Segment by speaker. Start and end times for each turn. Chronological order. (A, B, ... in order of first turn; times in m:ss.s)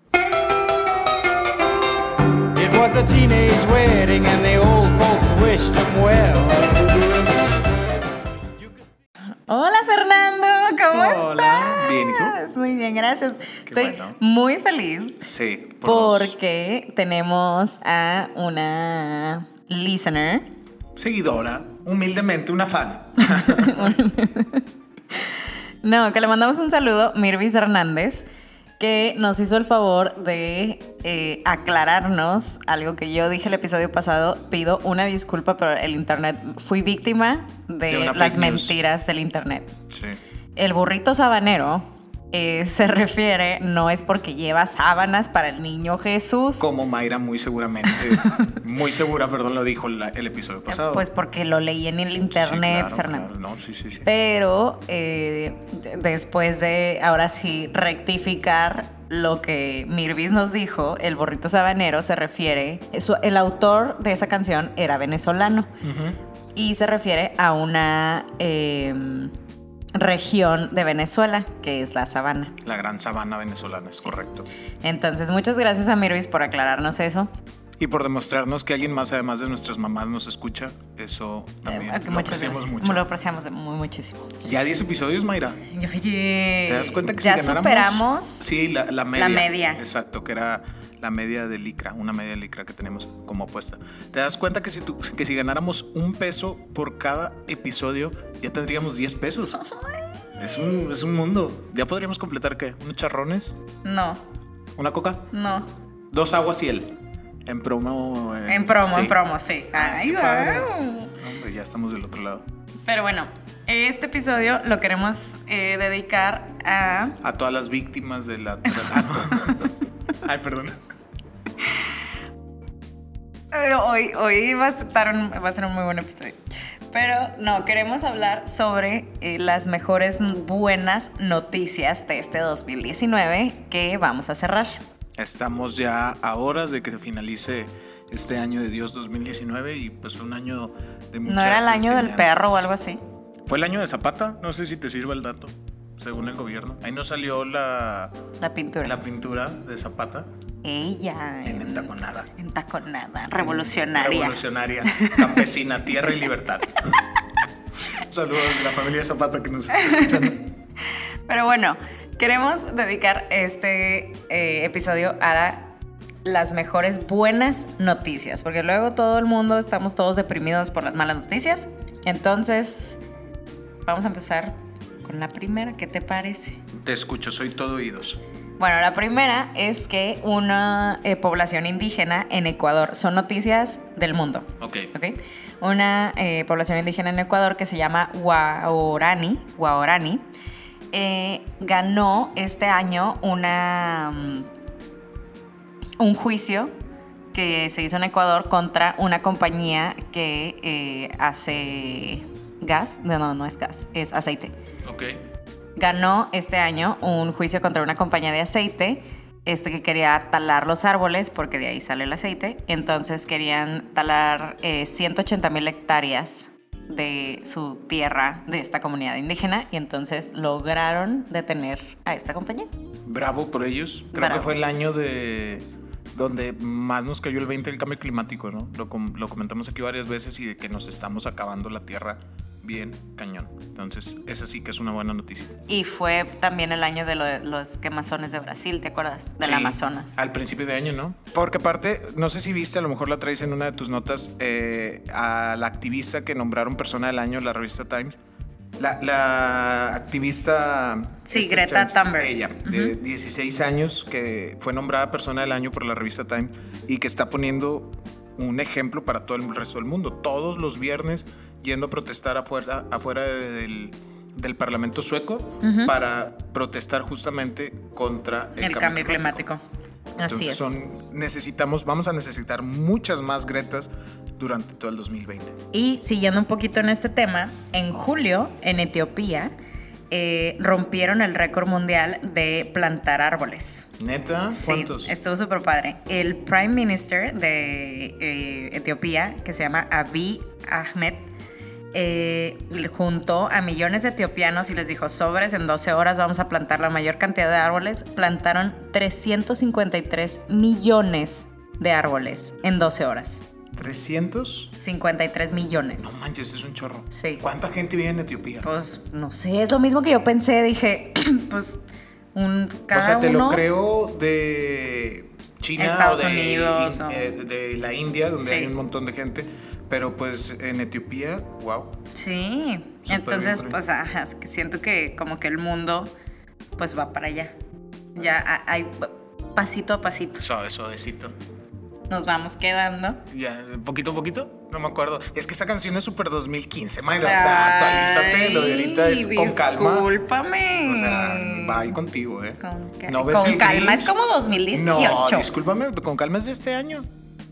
0:02.6-0:07.2 A
0:09.5-0:15.2 B
0:10.9-0:12.4 C
0:13.7-0:14.2 C
0:15.2-0:16.4 C
0:15.8-0:20.5 B
0:21.0-0:24.0 C
0:23.2-0:28.3 B
0:28.8-0:39.7 B
0:37.9-0:38.7 C
0:39.9-0:40.2 C
0:40.6-0:46.6 B
0:46.6-0:51.1 C
0:47.9-0:48.4 B
0:50.7-0:53.3 B
0:52.3-0:54.1 C
0:54.0-1:05.8 B
1:05.8-1:06.2 C
1:06.6-1:09.3 B
1:10.0-1:12.6 B
1:12.6-1:14.5 C
1:14.8-1:17.3 B
1:17.8-1:23.1 C
1:21.7-1:24.4 B
1:24.4-1:25.6 C
1:25.7-1:28.5 B
1:26.7-1:39.6 C
1:29.2-1:29.8 B
1:39.6-1:40.8 B
1:40.4-1:43.6 C
1:43.8-1:44.2 B
1:44.8-1:45.3 C
1:45.3-1:45.7 B
1:46.1-1:47.0 C
1:47.5-1:49.2 C
1:48.5-1:51.2 B
1:49.7-1:52.5 C
1:52.9-1:57.2 B
1:57.2-2:00.8 C
1:58.7-1:59.5 B
2:03.5-2:06.4 B
2:06.9-2:14.8 B
2:15.2-2:22.7 C
2:21.2-2:23.0 B
2:23.5-2:28.1 C
2:28.4-2:29.0 B
2:28.8-2:30.3 C
2:30.6-2:34.4 B
2:31.4-2:32.3 C
2:33.4-2:37.0 C
2:34.9-2:35.4 B
2:37.9-2:40.4 C
2:39.8-2:40.4 B
2:41.3-2:45.7 B
2:46.2-2:53.0 B
2:53.9-2:56.6 B
2:56.7-2:58.2 C
2:58.6-3:10.2 B
3:04.6-3:04.9 C
3:10.9-3:14.5 B
3:16.0-3:16.7 B
3:17.3-3:24.5 B
3:24.8-3:25.2 C
3:25.8-3:42.7 B
3:43.1-3:55.5 C
3:44.1-3:44.6 B
3:55.7-4:00.2 B
3:59.4-4:08.1 C
4:08.8-4:29.5 C
4:11.3-4:13.0 B
4:25.6-4:25.9 B
4:28.6-4:29.6 B
4:30.2-4:30.8 B
4:30.2-4:35.6 C
4:35.7-4:39.5 B
4:40.1-4:43.9 B
4:44.0-4:45.2 C
4:44.5-4:51.3 B
4:51.9-5:03.4 B
5:03.7-5:04.8 C
5:04.8-5:06.2 B
5:06.0-5:08.7 C
5:07.1-5:07.4 B
5:08.6-5:11.8 B
5:12.4-5:13.6 B
5:12.9-5:22.0 C
5:15.8-5:17.3 B
5:18.4-5:18.7 B
5:22.1-5:26.1 B
5:23.1-5:23.8 C
5:26.8-5:27.6 B
5:28.2-5:30.5 B
5:30.4-5:31.4 C
5:32.1-5:33.2 B
5:33.3-5:40.1 C
5:37.2-5:42.0 B
5:40.8-5:44.1 C
5:42.6-5:45.5 B
5:44.7-5:47.1 C